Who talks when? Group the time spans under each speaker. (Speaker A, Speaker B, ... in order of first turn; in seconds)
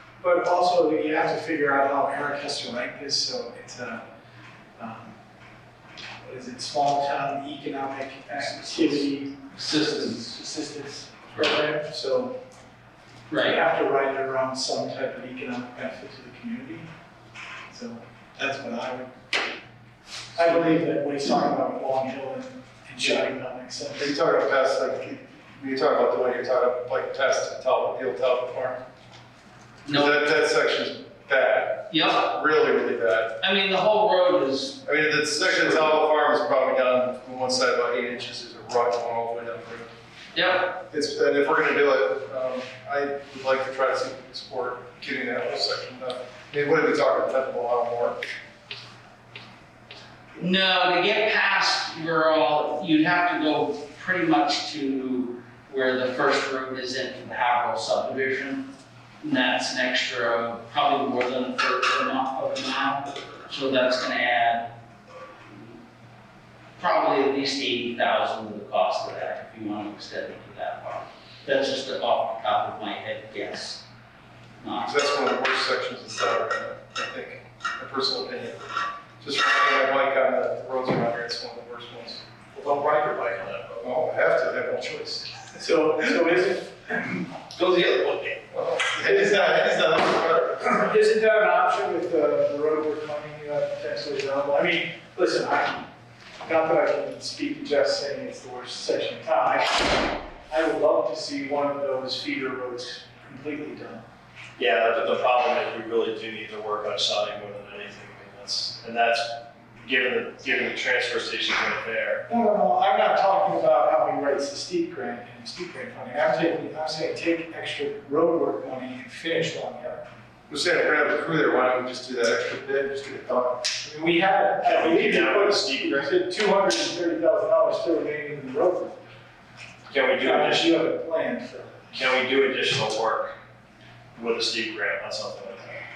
Speaker A: 0.2-4.0, 4.8-5.2, 6.2-12.3, 13.4-16.9, 17.7-19.1, 20.4-24.2, 85.6-87.2, 89.0-89.8, 90.7-95.8, 96.4-104.0, 112.3-120.0, 123.8-129.0, 130.2-132.0
Speaker B: 9.5-10.4, 13.3-13.6, 29.9-30.2, 31.9-32.2, 33.4-34.8, 40.3-40.7, 50.4-58.7, 59.2-64.7, 66.8-73.8, 74.6-74.9
Speaker C: 24.0-28.8, 29.9-33.3, 34.9-39.9, 40.8-48.2, 74.8-78.6, 79.2-82.2, 83.8-85.3, 88.5-90.9, 120.5-123.7
Speaker D: 82.5-83.8, 87.5-88.4, 104.6-112.2, 124.6-126.1, 129.9-130.7, 131.9-133.3, 134.2-135.8